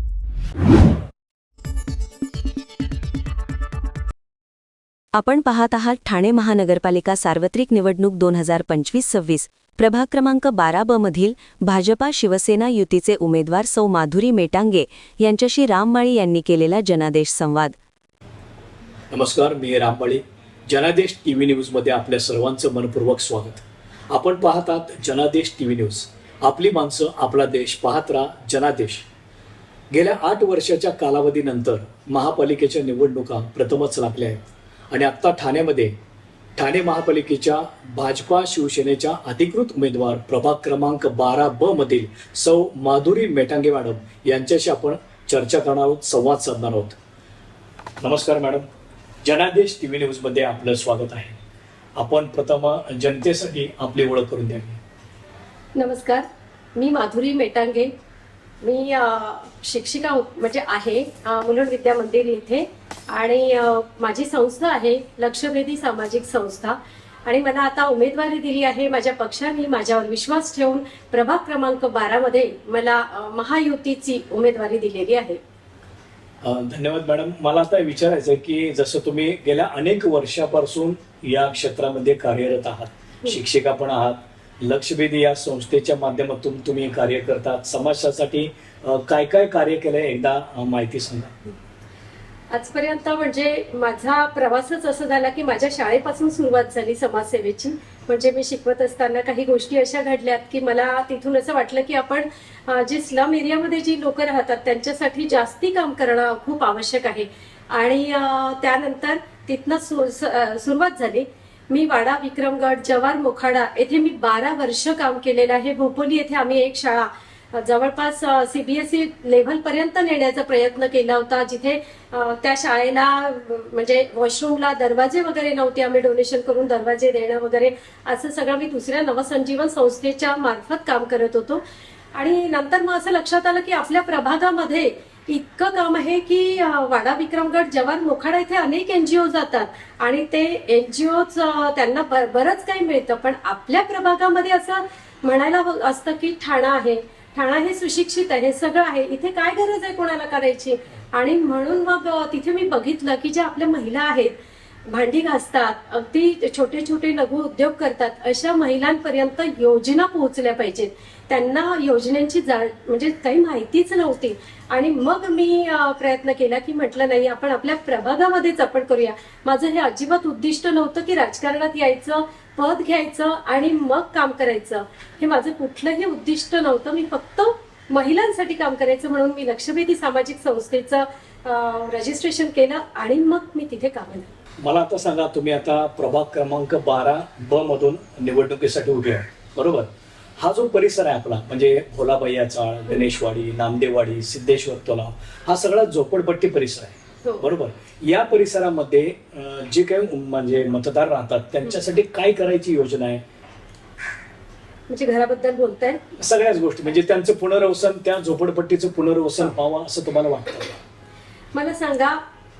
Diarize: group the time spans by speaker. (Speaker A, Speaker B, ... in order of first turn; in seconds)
Speaker A: 5.2-17.8
Speaker B: 19.1-29.0, 29.9-35.9, 36.6-47.0, 48.0-48.6, 49.2-51.3, 52.0-54.8, 76.4-91.5, 184.6-203.2, 206.2-210.8
Speaker C: 55.8-56.2, 56.8-57.9, 58.6-75.4, 92.5-131.6, 132.1-154.3, 154.9-184.3, 204.9-206.0, 211.5-212.2